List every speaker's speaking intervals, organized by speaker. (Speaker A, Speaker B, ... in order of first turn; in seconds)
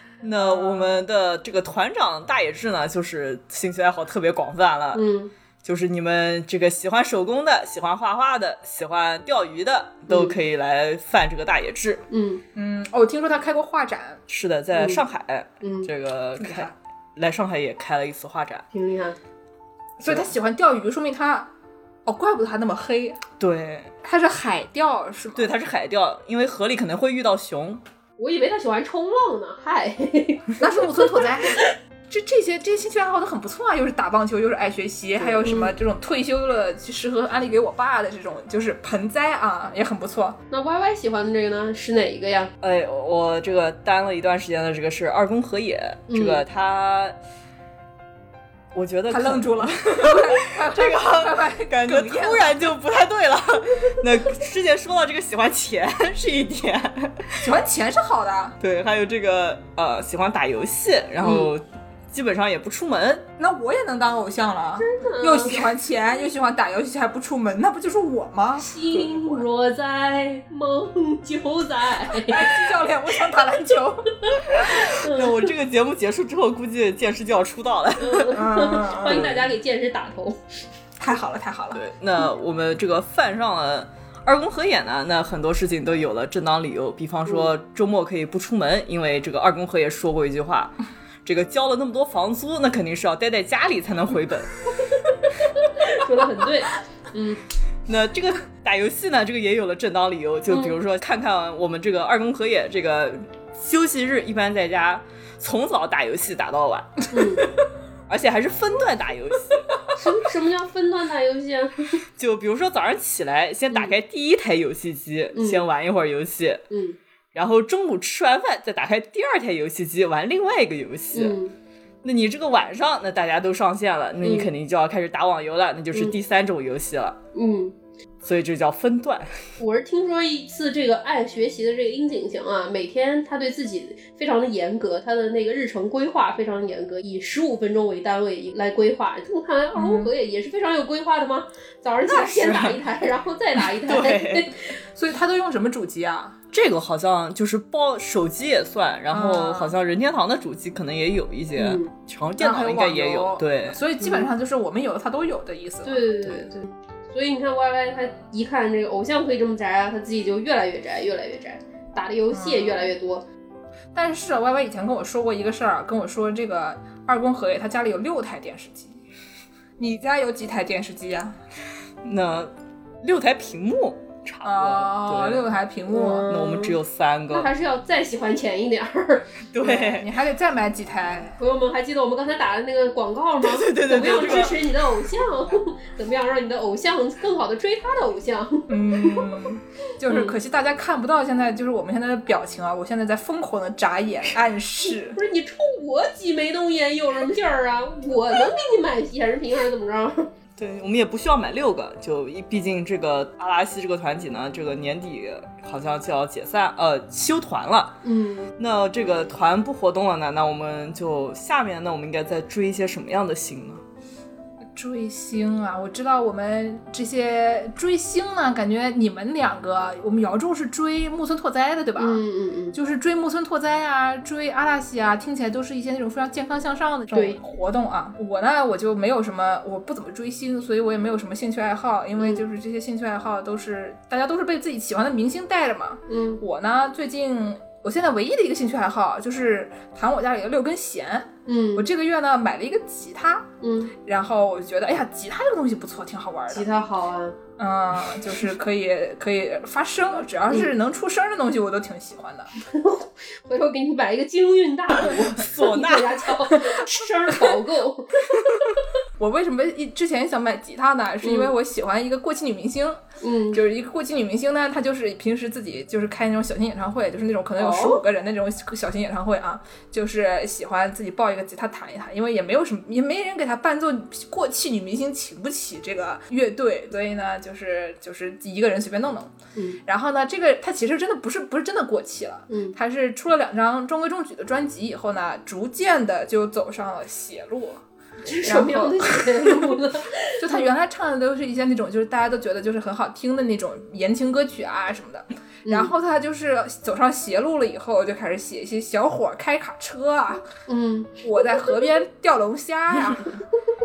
Speaker A: 0.2-5.0, 5.6-12.0, 14.3-18.6, 23.4-23.9, 25.4-27.8, 42.6-47.1, 48.7-57.5, 58.6-63.2, 74.6-78.4, 79.0-79.5, 81.7-94.5, 97.9-107.5, 108.1-109.8, 112.2-116.7, 117.3-121.4, 122.0-127.2, 128.2-129.4, 143.8-144.5, 146.5-153.8, 172.0-172.5, 173.0-175.5, 176.3-177.5, 179.5-180.1, 183.4-184.9, 200.6-208.0, 208.6-213.8, 255.1-256.3
Speaker B: 0.4-1.0, 12.5-14.2, 16.4-16.7, 20.0-21.5, 22.1-23.2, 24.0-25.5, 30.6-40.4, 49.1-52.7, 57.4-58.6, 63.4-68.7, 72.1-74.1, 78.3-79.3, 81.0-81.8, 139.7-140.1, 142.1-142.8, 144.9-146.4, 149.1-149.7, 152.4-156.1, 162.3-162.9, 163.9-169.0, 169.8-171.4, 174.4-176.2, 179.6-181.4, 188.7-195.2, 214.7-222.2, 222.7-243.5, 244.0-246.7, 247.6-252.5, 259.2-263.0, 263.5-279.3, 279.9-287.8, 288.4-289.8, 290.4-300.4, 301.2-303.3
Speaker C: 4.9-5.3, 10.1-10.3, 12.1-12.4, 14.8-15.0, 15.6-15.9, 18.7-19.2, 28.2-31.7, 35.4-35.7, 40.5-42.5, 46.1-46.4, 61.2-61.5, 64.8-65.7, 68.6-72.6, 74.3-75.4, 78.0-80.4, 94.9-97.4, 100.5-100.7, 107.1-107.5, 109.9-112.0, 115.3-115.6, 116.7-117.0, 121.1-121.5, 124.2-124.5, 127.3-127.7, 129.6-144.7, 151.6-151.9, 155.8-163.2, 175.9-176.8, 177.3-179.3, 181.4-189.3, 190.1-190.3, 195.0-200.3, 208.0-208.5, 222.0-222.8, 227.1-227.4, 232.2-232.4, 236.1-236.4, 241.4-241.9, 243.6-243.9, 246.5-247.4, 252.6-258.8, 261.2-261.5, 263.2-263.6, 267.6-268.0, 282.5-282.8, 288.2-290.4, 295.6-295.9, 300.7-301.8